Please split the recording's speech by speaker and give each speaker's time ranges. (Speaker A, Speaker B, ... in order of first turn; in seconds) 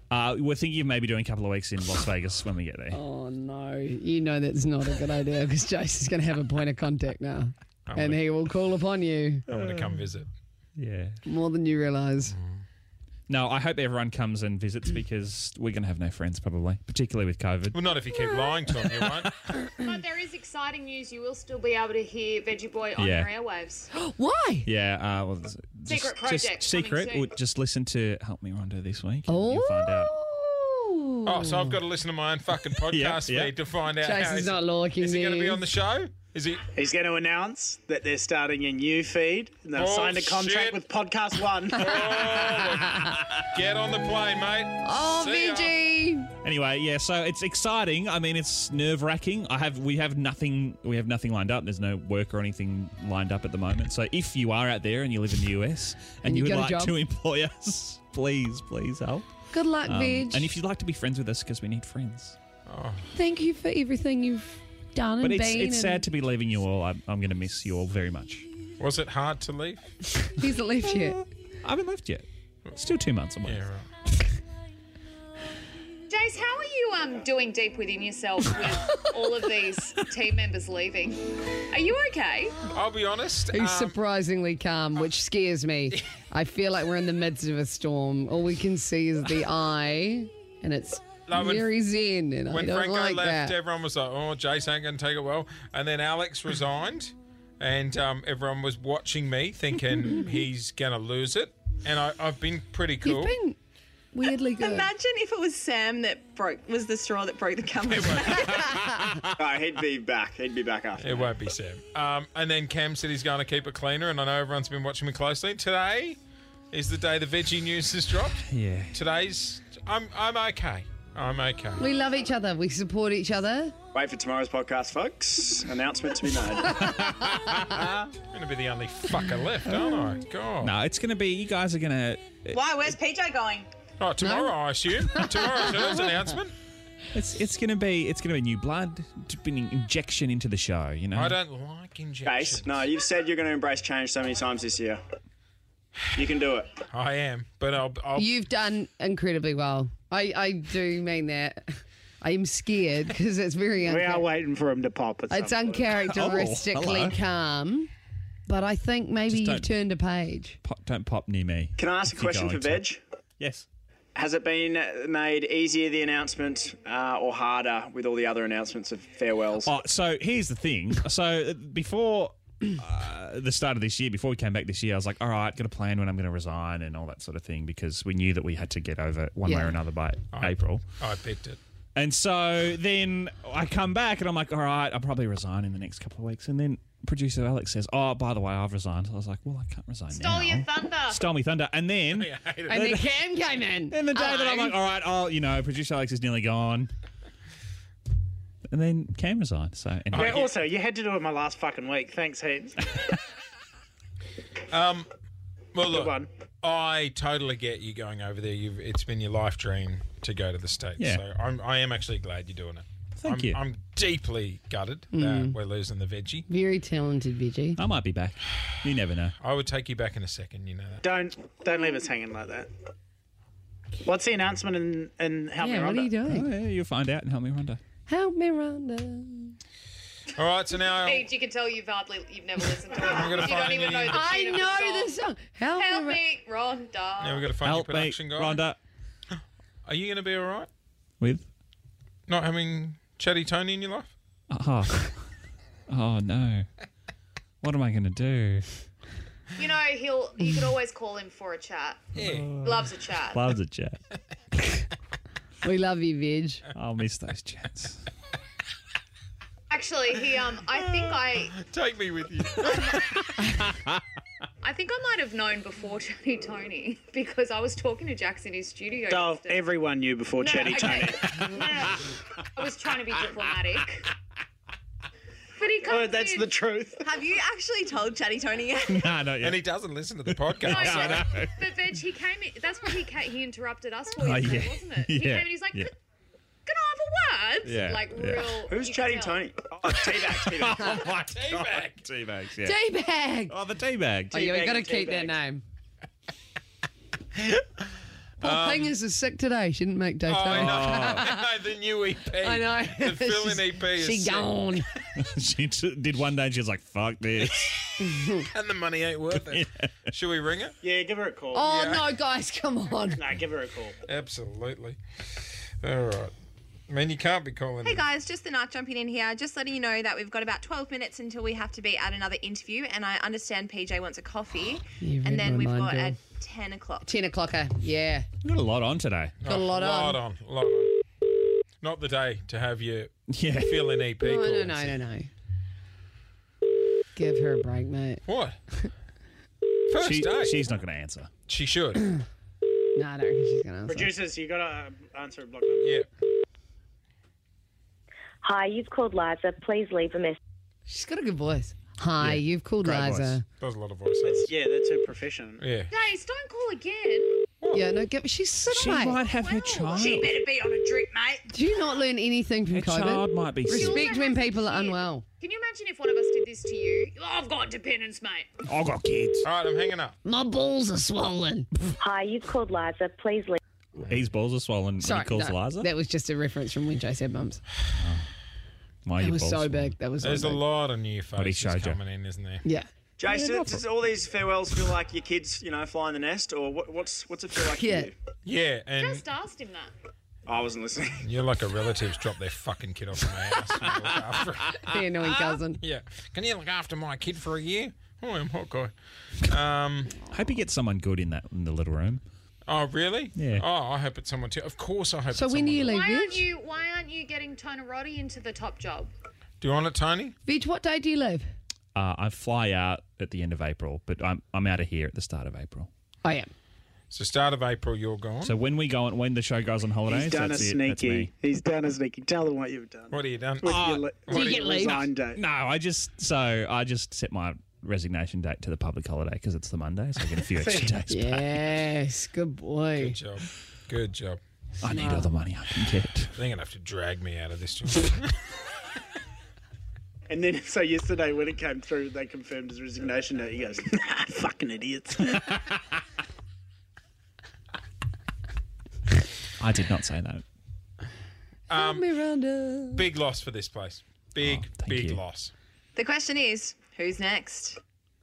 Speaker A: 0.1-3.0, 9.5-10.1, 10.8-11.2, 13.3-17.8, 18.7-19.5, 23.0-23.3, 24.6-30.1, 32.7-33.5, 46.4-59.3, 59.8-62.4, 65.2-68.5, 70.8-73.6, 118.5-118.9, 126.8-127.8, 130.6-132.9, 137.1-141.4, 156.0-157.2, 159.3-159.8, 160.6-163.7, 169.6-180.8, 182.0-193.1, 193.9-196.9, 198.7-200.5, 211.0-211.2, 213.2-213.6, 217.8-219.3, 226.2-227.8, 237.6-238.8, 241.2-241.5, 244.5-245.2, 245.9-246.7, 247.6-248.7, 252.2-254.0, 256.8-258.1, 278.9-279.6, 280.3-281.6, 284.2-285.9, 287.6-288.6, 289.9-292.8, 293.5-294.5, 300.5-301.3, 305.2-307.7, 309.4-310.0, 328.4-329.4, 333.3-333.9, 340.0-341.3, 352.2-353.4, 358.7-360.4, 362.7-364.1, 368.7-369.5, 374.0-375.9, 378.0-378.3, 379.1-379.9, 381.4-382.0, 400.3-402.2, 403.4-403.7, 411.9-415.9, 418.4-421.3, 423.6-424.1, 425.3-431.6, 434.8-436.3, 449.6-450.4, 454.4-455.2
Speaker B: 2.9-9.4, 11.3-12.3, 23.9-24.7, 29.3-31.8, 34.0-35.6, 44.8-46.3, 56.2-57.0, 59.5-60.5, 63.1-66.0, 70.3-71.2, 83.5-93.6, 103.0-103.6, 104.1-104.9, 121.8-123.7, 127.0-127.4, 134.2-135.8, 148.2-154.3, 155.3-157.9, 158.5-160.6, 179.4-179.8, 192.7-194.6, 215.1-215.6, 216.5-217.8, 225.6-226.5, 228.1-229.6, 234.1-236.2, 255.6-256.6, 292.6-293.5, 294.3-295.6, 298.4-301.3, 302.4-304.9, 308.0-308.4, 311.5-313.2, 325.0-326.2, 327.1-328.3, 329.4-330.2, 334.2-335.3, 337.2-338.2, 342.9-344.1, 350.9-353.4, 357.7-359.2, 361.5-365.2, 370.2-371.7, 375.0-377.6, 379.2-380.7, 382.6-383.8, 387.7-388.1, 394.9-395.8, 405.3-406.5, 410.5-411.5, 416.2-416.5, 424.3-425.1, 431.1-433.2, 434.9-435.3, 451.7-453.1
Speaker C: 7.9-8.2, 9.5-10.3, 12.3-12.6, 17.7-19.3, 31.3-36.7, 39.8-40.9, 41.8-45.7, 62.7-63.1, 68.8-69.9, 73.4-73.9, 82.7-84.0, 91.3-91.7, 92.5-103.3, 108.0-109.0, 111.0-116.2, 116.7-121.9, 128.3-130.7, 134.0-136.5, 141.2-142.9, 146.9-148.3, 180.3-181.6, 192.1-192.8, 200.1-200.5, 204.7-205.1, 205.7-216.4, 219.4-221.0, 230.3-231.3, 233.0-234.5, 237.2-238.6, 239.9-240.7, 242.3-244.1, 252.2-252.6, 260.8-263.2, 279.4-281.2, 290.8-292.0, 297.4-297.6, 298.4-298.9, 300.3-304.5, 308.4-310.8, 311.6-312.1, 314.1-315.0, 315.8-316.3, 316.9-318.1, 329.4-330.9, 331.8-335.0, 338.3-338.6, 339.9-340.7, 341.5-342.1, 345.8-346.1, 353.6-354.5, 355.6-355.9, 357.6-357.9, 369.4-370.1, 380.2-382.6, 388.4-389.3, 391.2-398.9, 399.5-400.2, 402.7-405.9, 409.6-410.4, 417.1-418.6, 423.1-424.7, 433.0-434.4, 436.4-438.4, 451.7-452.1, 452.9-455.5
Speaker D: 19.8-23.9, 25.9-27.3, 76.1-82.6, 190.1-191.2, 231.0-235.2, 235.8-237.5, 249.6-253.4, 259.7-261.5, 264.6-269.6, 270.4-271.6, 272.5-274.1, 275.6-276.5, 280.7-285.9, 286.7-289.5, 355.9-357.4, 359.4-360.1, 363.7-368.5, 389.0-389.9, 405.9-409.1
Speaker E: 36.7-41.9, 153.9-155.8, 200.1-202.8, 205.8-206.3, 221.0-222.7, 224.1-226.1, 269.1-271.7, 275.9-277.1, 310.8-311.7, 313.2-314.0, 343.9-345.9, 354.3-355.6, 420.1-425.4, 430.6-431.0, 440.3-445.6
Speaker F: 104.6-108.7, 277.0-279.1, 317.8-327.1, 456.0-457.8
Speaker G: 109.4-111.3, 123.9-126.8, 142.2-145.0, 146.2-146.7, 161.8-163.0, 164.2-169.7, 288.7-290.7, 294.3-295.4, 383.2-388.1, 390.5-391.3
Speaker H: 132.5-133.7, 360.0-361.4
Speaker I: 348.4-350.4, 372.0-373.6